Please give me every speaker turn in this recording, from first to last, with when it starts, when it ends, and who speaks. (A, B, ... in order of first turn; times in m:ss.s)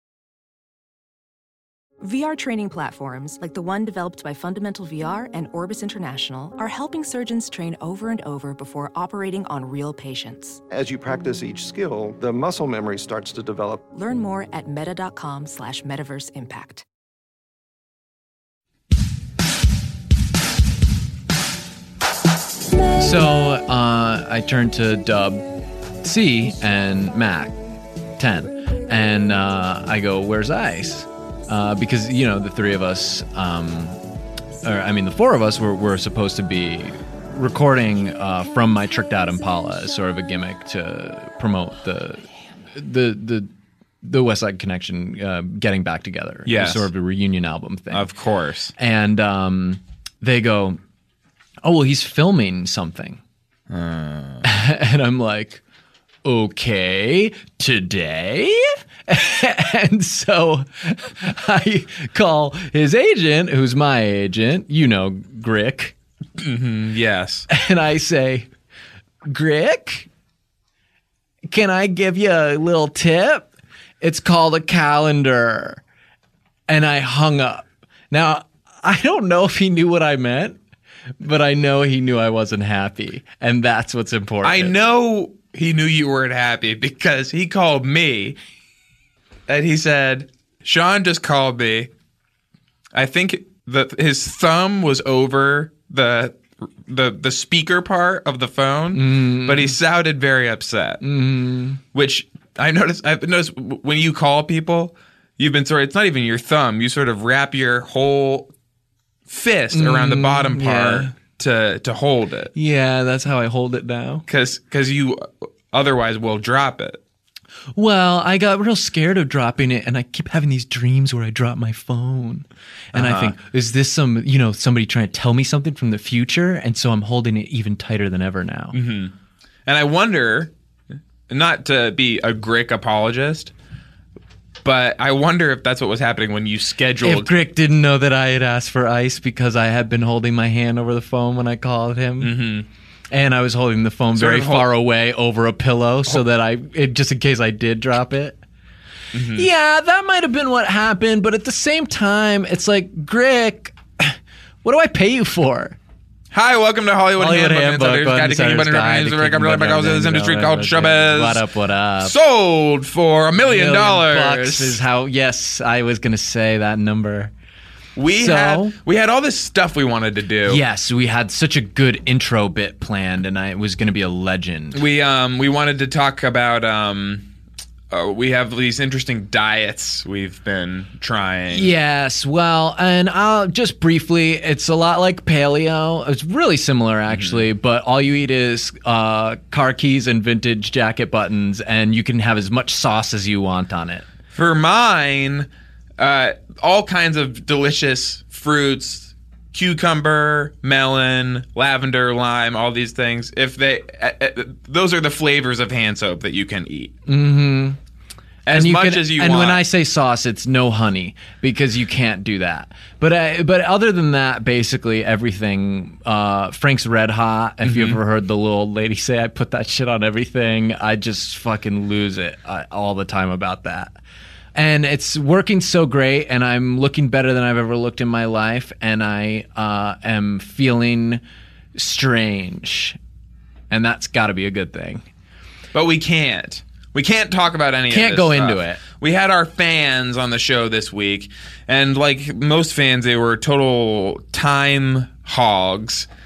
0:02.0-0:10.6 A
0:10.7-0:13.9 B
0:13.9-0:16.8 A
0:23.0-0:25.5 C
0:26.0-0:27.6 C
0:28.2-0:34.0 C
0:34.6-0:43.5 C
0:44.0-0:48.1 C
0:46.5-0:46.9 D
0:47.9-0:48.7 D
0:48.8-0:50.8 C
0:51.6-0:53.2 C
0:53.7-0:54.4 D
0:54.4-0:55.6 C
0:56.2-1:05.9 C
1:06.4-1:07.5 D
1:07.5-1:08.5 C
1:09.2-1:10.1 C
1:11.5-1:13.5 C
1:14.0-1:15.8 C
1:16.7-1:20.6 C
1:21.2-1:24.7 C
1:24.4-1:28.4 D
1:29.5-1:31.9 D
1:32.9-1:41.0 D
1:38.9-1:39.7 C
1:41.0-1:41.8 C
1:41.9-1:48.5 D
1:49.3-1:52.5 D
1:49.7-1:51.1 C
1:52.6-1:54.2 C
1:54.3-1:57.0 D
1:57.8-2:08.8 C
2:02.9-2:03.4 D
2:08.7-2:09.1 D
2:09.7-2:10.5 D
2:11.3-2:13.5 D
2:14.6-2:17.3 D
2:17.0-2:22.3 C
2:22.2-2:22.7 D
2:23.1-2:28.4 C
2:24.2-2:24.7 D
2:29.1-2:29.5 D
2:29.3-2:35.8 C
2:36.3-2:41.4 D
2:37.2-2:42.1 C
2:42.0-2:44.8 D
2:43.4-2:47.3 C
2:48.0-2:50.6 D
2:48.1-2:48.8 C
2:50.4-2:54.8 C
2:54.7-2:57.3 D
2:57.9-3:01.7 D
3:01.5-3:14.0 C
3:14.3-3:26.9 D
3:27.1-3:27.8 C
3:28.5-3:29.6 D
3:28.5-3:44.0 C
3:37.6-3:38.0 D
3:44.6-3:51.2 C
3:51.8-3:53.0 C
3:53.7-3:55.0 C
3:55.7-4:06.1 D
3:57.9-3:58.8 C